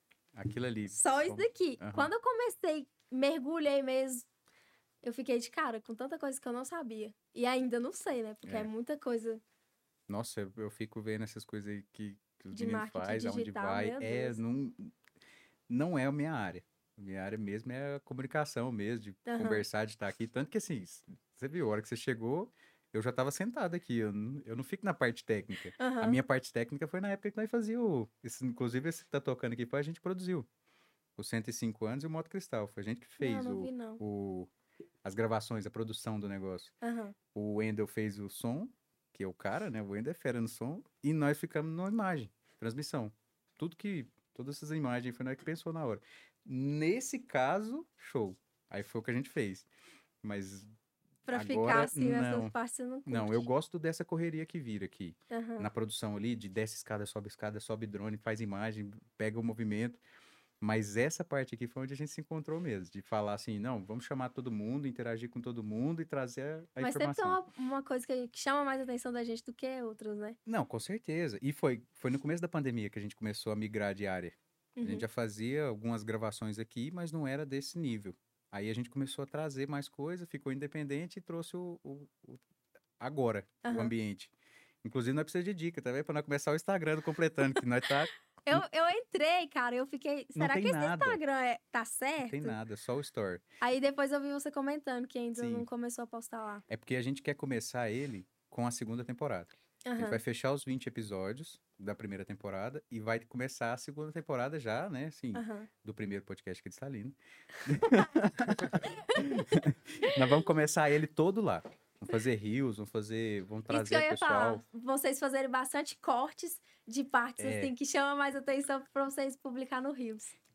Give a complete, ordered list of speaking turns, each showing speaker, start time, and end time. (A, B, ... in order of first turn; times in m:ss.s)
0:00.3-0:02.1 A
0:00.9-0:04.2 B
0:05.0-0:09.4 B
0:08.4-0:08.7 A
0:10.1-0:14.9 A
0:12.5-0:14.4 B
0:15.7-0:30.5 A
0:19.3-0:19.6 B
0:25.8-0:26.2 B
0:31.2-0:34.5 A
0:33.2-0:34.0 B
0:35.0-0:36.7 A
0:36.8-0:37.1 B
0:37.3-0:49.7 A
0:50.2-0:50.7 A
0:51.2-0:53.5 B
0:51.3-0:52.5 A
0:53.0-1:00.0 A
0:55.3-0:55.7 B
1:00.6-1:07.4 A
1:06.8-1:10.4 B
1:10.4-1:22.4 A
1:14.8-1:15.0 B
1:23.0-1:24.3 A
1:23.6-1:23.9 B
1:24.8-1:28.6 A
1:28.4-1:32.6 B
1:30.3-1:31.2 A
1:32.2-1:33.4 A
1:33.6-1:36.6 B
1:35.3-1:35.7 A
1:36.7-1:54.6 A
1:39.8-1:40.2 B
1:45.3-1:45.7 B
1:48.8-1:49.2 B
1:53.7-2:00.3 B
1:57.4-1:57.7 A